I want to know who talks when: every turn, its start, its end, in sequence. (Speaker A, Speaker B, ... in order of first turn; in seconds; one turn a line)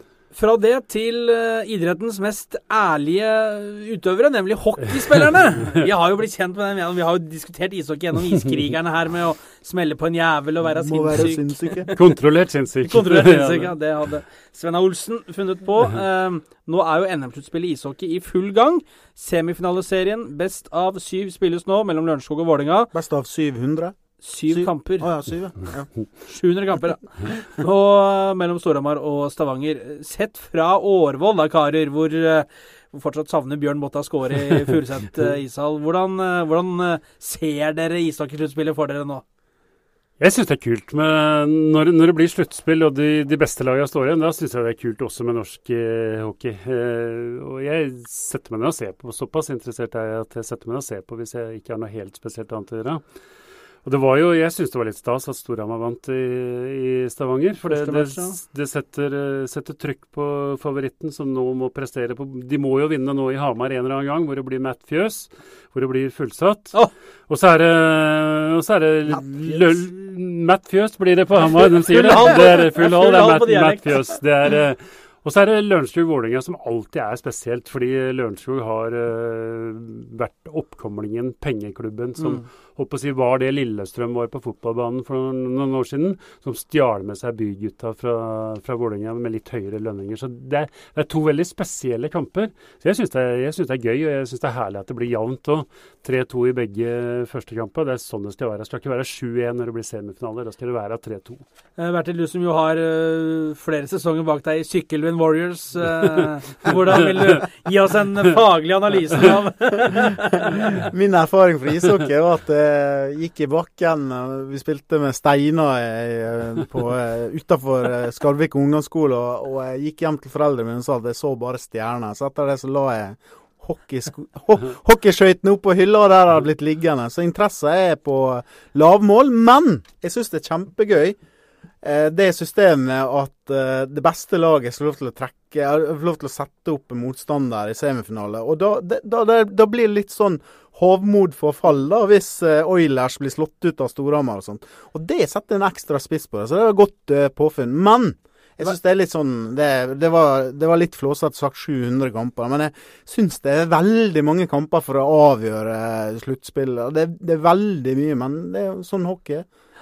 Speaker A: 0.3-11.9
Speaker B: 10.6-11.9
Speaker C: 11.9-13.7
Speaker A: 12.8-22.9
Speaker B: 22.9-25.9
Speaker A: 24.2-25.1
Speaker A: 26.3-39.2
Speaker C: 40.2-53.0
Speaker C: 53.8-66.8
Speaker A: 57.6-58.4
Speaker C: 67.3-101.4
Speaker A: 71.5-74.1
Speaker A: 82.2-82.4
Speaker A: 101.8-110.7
Speaker B: 110.4-131.2
Speaker B: 131.8-159.4